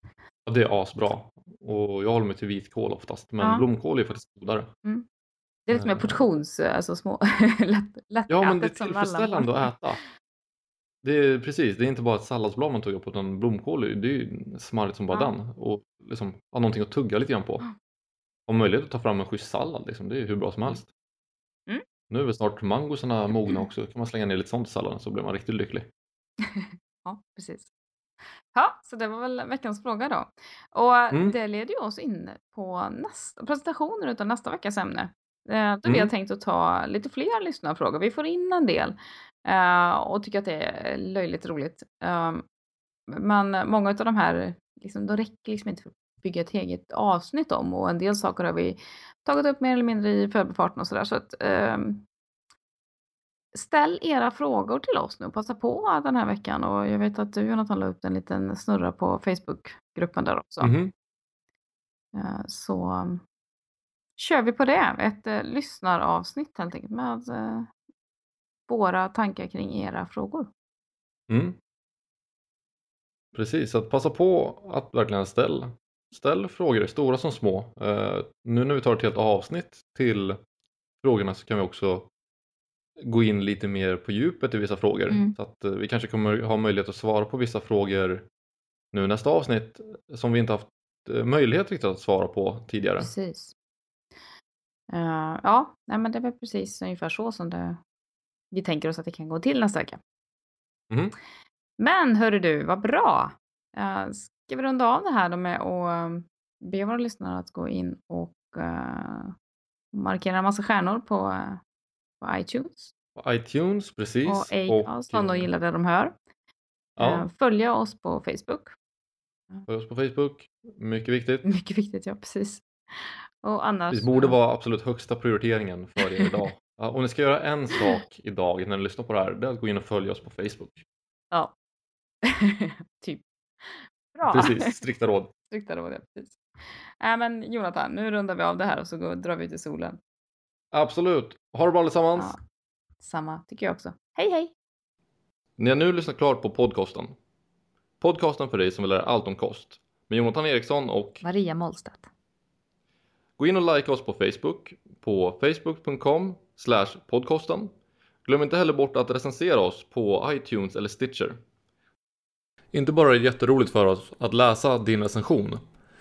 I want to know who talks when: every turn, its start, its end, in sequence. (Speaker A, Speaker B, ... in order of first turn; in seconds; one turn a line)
Speaker A: 0.5-4.7
Speaker B: 3.4-3.6
Speaker B: 5.7-9.8
Speaker A: 5.7-6.2
Speaker A: 8.3-10.0
Speaker A: 11.0-17.6
Speaker A: 18.5-20.9
Speaker A: 22.1-25.9
Speaker B: 26.4-27.7
Speaker B: 28.5-42.4
Speaker B: 43.1-52.0
Speaker B: 53.5-60.7
Speaker A: 60.6-60.9
Speaker B: 62.1-63.2
Speaker B: 64.2-67.7
Speaker B: 68.7-70.5
Speaker A: 71.3-71.5
Speaker A: 73.3-80.4
Speaker A: 81.0-82.1
Speaker A: 83.0-88.3
Speaker B: 85.1-85.3
Speaker A: 88.9-93.1
Speaker B: 93.0-93.5
Speaker B: 94.9-97.8
Speaker B: 98.5-100.0
Speaker B: 101.8-109.3
Speaker B: 109.9-111.6
Speaker B: 112.2-112.9
Speaker A: 113.2-115.5
Speaker B: 114.2-116.1
Speaker A: 117.0-117.3
Speaker B: 117.0-118.7
Speaker A: 119.7-121.5
Speaker B: 121.4-124.3
Speaker A: 123.9-130.8
Speaker B: 126.2-126.4
Speaker B: 132.2-134.7
Speaker A: 134.3-135.3
Speaker B: 135.5-136.4
Speaker B: 137.0-140.0
Speaker A: 140.7-142.3
Speaker B: 143.0-144.5
Speaker A: 145.6-147.1
Speaker A: 148.0-151.2
Speaker B: 151.2-152.1
Speaker A: 153.4-157.7
Speaker A: 158.2-161.4
Speaker A: 162.7-165.6